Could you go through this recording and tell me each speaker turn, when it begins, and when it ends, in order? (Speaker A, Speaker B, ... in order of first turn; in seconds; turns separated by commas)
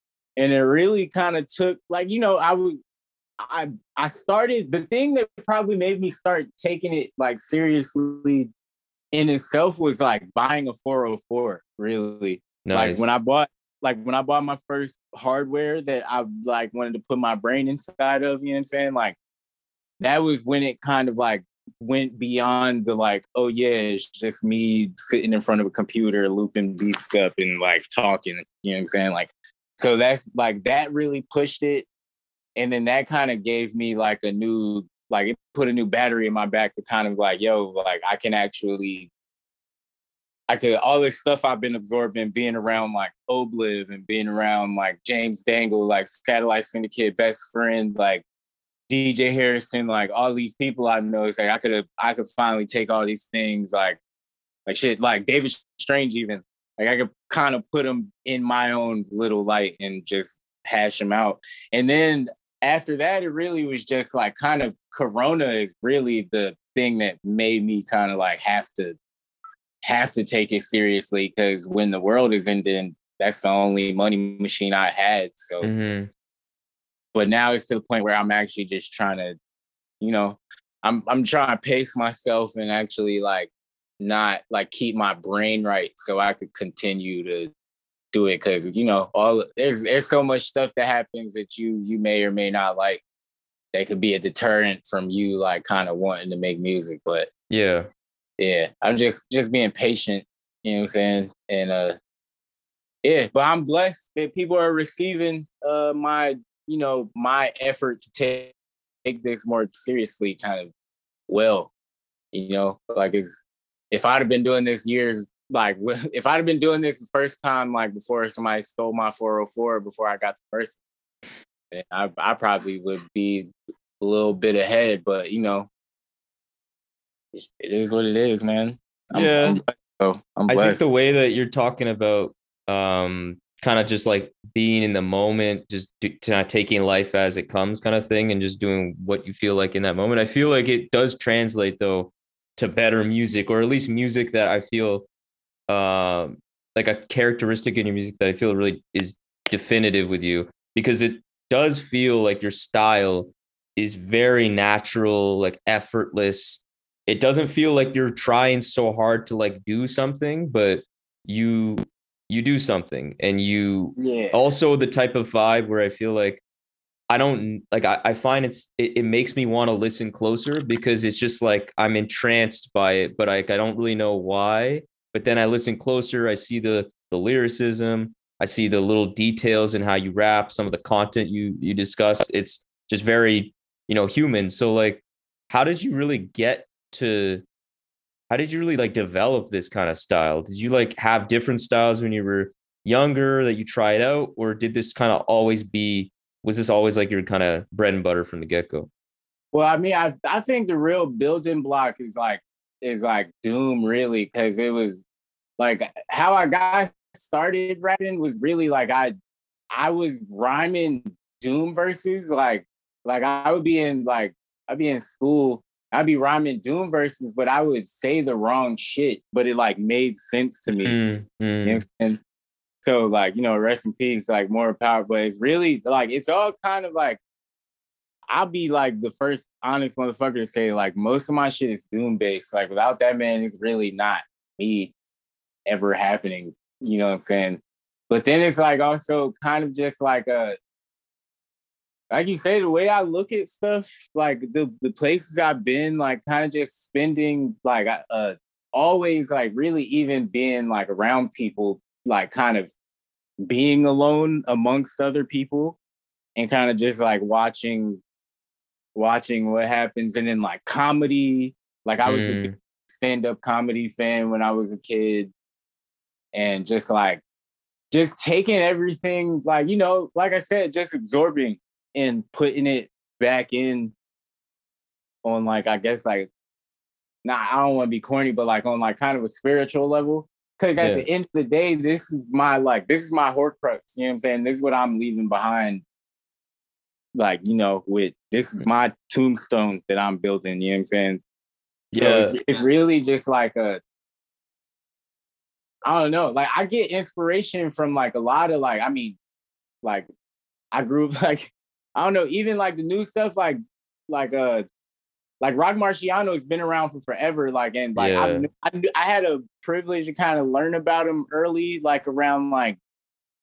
Speaker A: 0.4-2.8, Speaker A: 3.4-8.5, Speaker A: 9.1-19.2, Speaker B: 12.7-13.1, Speaker A: 20.0-31.9, Speaker A: 32.6-39.1, Speaker A: 40.5-48.2, Speaker A: 48.9-54.0, Speaker A: 54.7-69.0, Speaker A: 69.8-75.7, Speaker B: 75.6-76.1, Speaker A: 77.1-79.4, Speaker A: 80.0-87.5, Speaker A: 88.1-93.0, Speaker A: 93.7-97.3, Speaker B: 97.5-97.9, Speaker A: 98.4-102.0, Speaker A: 103.0-108.5, Speaker A: 109.0-110.7, Speaker A: 111.3-111.7, Speaker A: 112.3-120.8, Speaker A: 121.7-125.7, Speaker A: 127.3-130.9, Speaker B: 129.2-129.6, Speaker B: 130.5-145.1, Speaker B: 145.7-166.4, Speaker A: 164.0-164.4, Speaker B: 167.1-187.4, Speaker B: 188.3-198.9, Speaker A: 199.5-205.0, Speaker A: 205.6-209.1, Speaker A: 209.7-221.0, Speaker B: 220.8-221.8, Speaker A: 221.6-222.2, Speaker A: 222.8-227.2, Speaker A: 228.3-234.9, Speaker A: 235.7-240.6, Speaker A: 242.1-252.7, Speaker A: 253.4-255.8, Speaker A: 256.4-258.0, Speaker A: 258.9-265.3, Speaker B: 262.0-262.6, Speaker A: 266.3-267.2, Speaker A: 267.9-273.9, Speaker A: 275.2-276.3, Speaker A: 277.2-285.8, Speaker B: 280.8-281.1, Speaker A: 287.1-291.2, Speaker B: 291.9-292.4, Speaker A: 291.9-293.8, Speaker A: 295.9-299.2, Speaker A: 299.8-300.1, Speaker A: 300.7-304.7, Speaker A: 305.4-312.8, Speaker B: 308.0-308.5